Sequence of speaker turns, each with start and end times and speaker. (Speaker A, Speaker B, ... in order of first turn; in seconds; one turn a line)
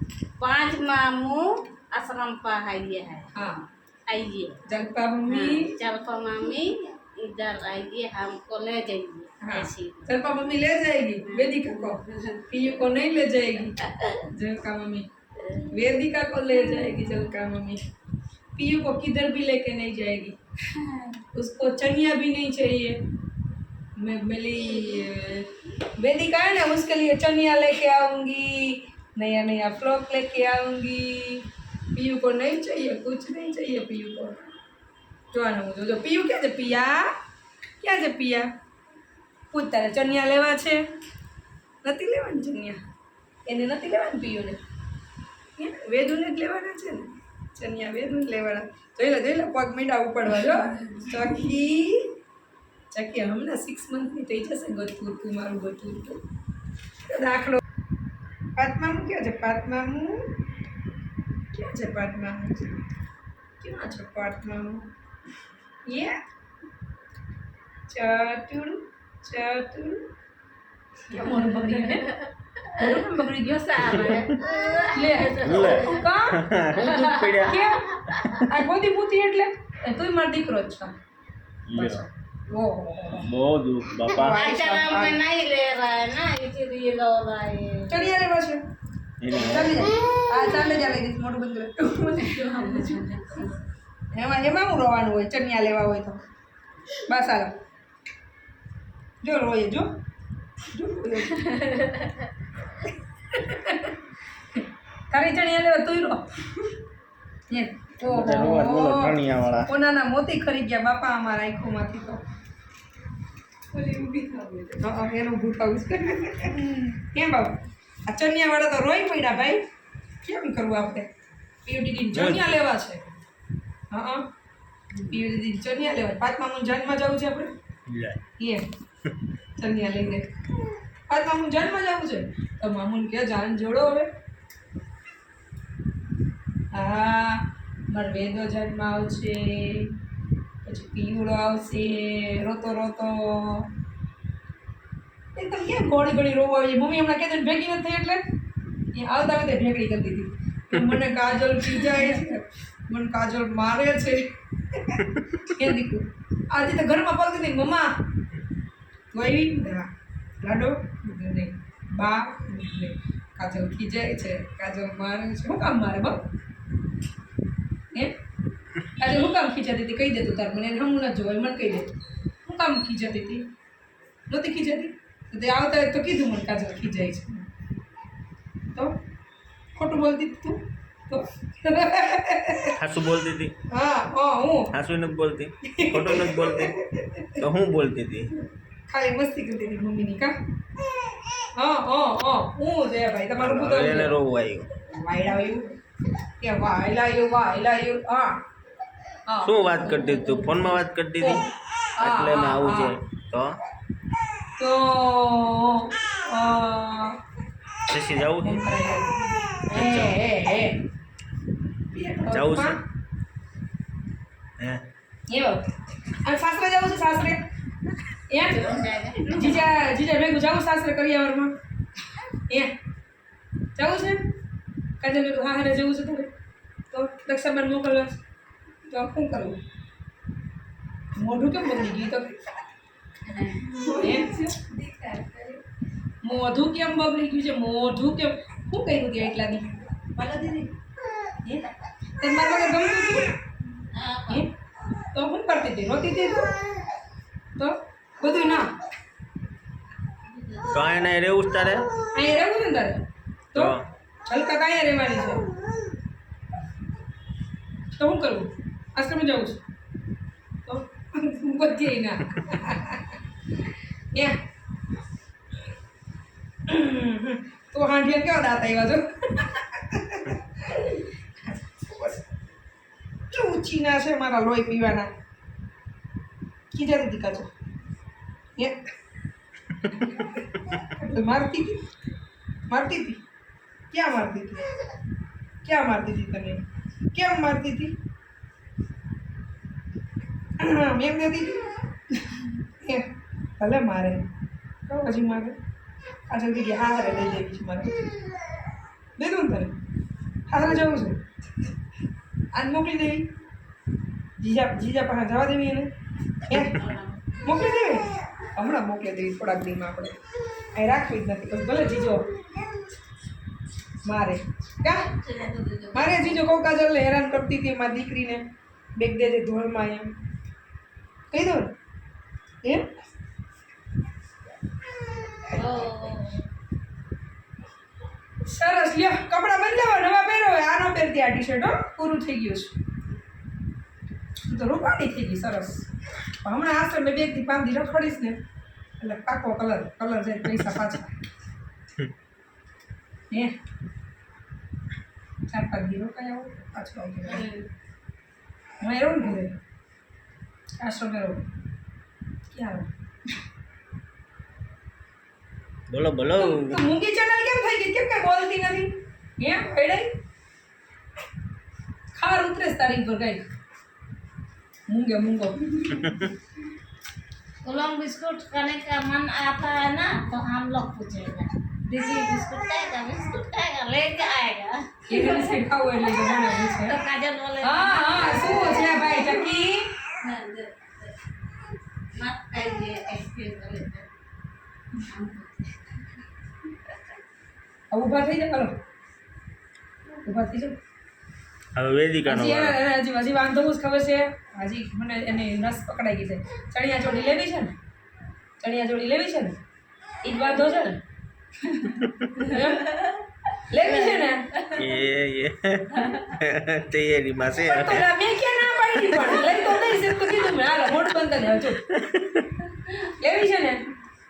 Speaker A: 0.4-1.4
Speaker A: 1.9-3.3
Speaker B: 3.3-3.6
Speaker A: 4.1-4.6
Speaker B: 4.7-5.7
Speaker A: 5.2-10.2
Speaker B: 9.4-15.1
Speaker A: 11.3-12.4
Speaker B: 15.7-17.8
Speaker B: 18.6-20.4
Speaker A: 20.7-21.2
Speaker B: 21.3-23.0
Speaker B: 24.0-34.4
Speaker B: 35.3-37.1
Speaker B: 37.8-38.5
Speaker B: 39.5-40.8
Speaker B: 41.8-42.8
Speaker B: 43.5-44.6
Speaker B: 45.6-52.1
Speaker B: 52.9-56.2
Speaker B: 57.1-57.6
Speaker B: 58.5-60.3
Speaker B: 61.5-62.7
Speaker B: 63.6-64.9
Speaker B: 65.9-66.2
Speaker B: 67.9-70.0
Speaker B: 71.1-72.1
Speaker A: 71.4-72.3
Speaker B: 72.7-74.3
Speaker A: 72.8-76.0
Speaker B: 74.9-76.5
Speaker C: 75.4-78.3
Speaker A: 76.8-78.4
Speaker B: 77.4-77.8
Speaker B: 78.4-80.9
Speaker C: 81.7-82.0
Speaker B: 81.8-83.3
Speaker C: 83.2-84.4
Speaker B: 84.1-85.2
Speaker A: 84.2-88.0
Speaker B: 87.9-88.6
Speaker C: 89.2-89.9
Speaker B: 89.3-93.4
Speaker A: 92.4-93.5
Speaker B: 94.1-96.2
Speaker B: 97.1-97.5
Speaker B: 99.2-99.8
Speaker B: 100.7-101.4
Speaker A: 101.4-102.2
Speaker B: 103.3-103.9
Speaker B: 104.5-106.2
Speaker B: 107.5-112.2
Speaker C: 108.0-109.7
Speaker B: 113.8-119.6
Speaker A: 114.3-114.6
Speaker B: 120.2-121.1
Speaker B: 121.6-123.1
Speaker C: 122.1-122.5
Speaker B: 123.9-124.2
Speaker B: 125.1-127.5
Speaker C: 127.9-128.2
Speaker B: 129.6-130.2
Speaker B: 131.1-134.1
Speaker B: 136.7-139.9
Speaker B: 140.6-143.7
Speaker B: 145.3-148.2
Speaker B: 148.9-157.9
Speaker B: 159.1-159.8
Speaker B: 160.4-166.2
Speaker B: 168.9-173.4
Speaker B: 174.3-177.4
Speaker B: 179.8-182.7
Speaker C: 182.8-183.5
Speaker B: 183.7-184.7
Speaker C: 184.7-186.8
Speaker B: 185.7-187.4
Speaker C: 187.4-188.3
Speaker B: 188.9-190.3
Speaker B: 191.5-194.2
Speaker C: 193.4-194.7
Speaker B: 194.8-195.7
Speaker B: 196.4-198.3
Speaker B: 199.3-201.5
Speaker C: 199.4-201.4
Speaker B: 202.0-202.9
Speaker C: 202.0-203.6
Speaker B: 204.6-207.2
Speaker C: 207.9-208.6
Speaker B: 208.4-210.8
Speaker C: 209.7-210.2
Speaker B: 211.9-212.8
Speaker C: 212.3-212.8
Speaker C: 214.6-214.8
Speaker B: 215.3-215.6
Speaker B: 216.2-217.4
Speaker B: 218.3-218.6
Speaker A: 218.5-219.7
Speaker B: 219.3-221.5
Speaker B: 223.7-224.2
Speaker B: 225.0-226.3
Speaker B: 226.9-228.1
Speaker B: 228.9-229.6
Speaker B: 231.2-232.4
Speaker A: 233.2-235.3
Speaker B: 233.9-235.5
Speaker B: 236.2-240.7
Speaker B: 242.2-243.3
Speaker A: 243.9-244.4
Speaker B: 245.1-246.5
Speaker B: 247.6-248.7
Speaker C: 250.7-251.9
Speaker B: 252.1-253.0
Speaker C: 253.5-253.9
Speaker B: 254.3-255.5
Speaker B: 257.9-259.6
Speaker B: 260.6-263.2
Speaker B: 266.7-272.2
Speaker B: 273.3-275.1
Speaker B: 276.7-277.5
Speaker B: 280.8-281.8
Speaker B: 282.7-283.2
Speaker B: 283.9-284.7
Speaker B: 285.6-286.6
Speaker B: 287.1-287.9
Speaker B: 290.6-291.7
Speaker B: 292.3-293.1
Speaker B: 293.6-294.2
Speaker B: 294.9-295.5
Speaker B: 296.3-298.0
Speaker B: 299.2-299.7
Speaker B: 300.5-301.2
Speaker B: 302.5-303.3
Speaker B: 304.4-305.9
Speaker B: 306.5-306.8
Speaker A: 306.5-307.4
Speaker B: 307.4-310.1
Speaker B: 310.7-312.3
Speaker B: 314.0-315.1
Speaker A: 314.8-316.4
Speaker B: 315.9-318.4
Speaker B: 319.0-320.1
Speaker B: 321.3-321.7
Speaker A: 325.4-326.4
Speaker B: 328.4-332.7
Speaker B: 334.4-335.9
Speaker B: 336.4-338.4
Speaker B: 339.0-341.1
Speaker B: 345.5-347.4
Speaker A: 347.3-347.6
Speaker B: 348.8-349.5
Speaker B: 350.8-351.4
Speaker B: 352.5-352.9
Speaker C: 355.9-356.8
Speaker B: 356.4-360.1
Speaker B: 362.1-363.4
Speaker B: 364.9-366.2
Speaker A: 367.6-379.3
Speaker B: 375.1-377.0
Speaker B: 377.6-379.9
Speaker A: 380.2-381.0
Speaker A: 382.1-384.1
Speaker A: 385.0-386.2
Speaker B: 387.9-388.7
Speaker B: 390.2-390.8
Speaker C: 391.7-392.8
Speaker B: 392.2-397.7
Speaker B: 398.6-399.5
Speaker B: 400.2-401.0
Speaker B: 402.4-403.0
Speaker B: 403.7-404.5
Speaker A: 403.9-404.8
Speaker C: 404.8-408.1
Speaker A: 406.0-406.3
Speaker B: 407.6-411.8
Speaker C: 411.9-412.5
Speaker B: 413.2-413.8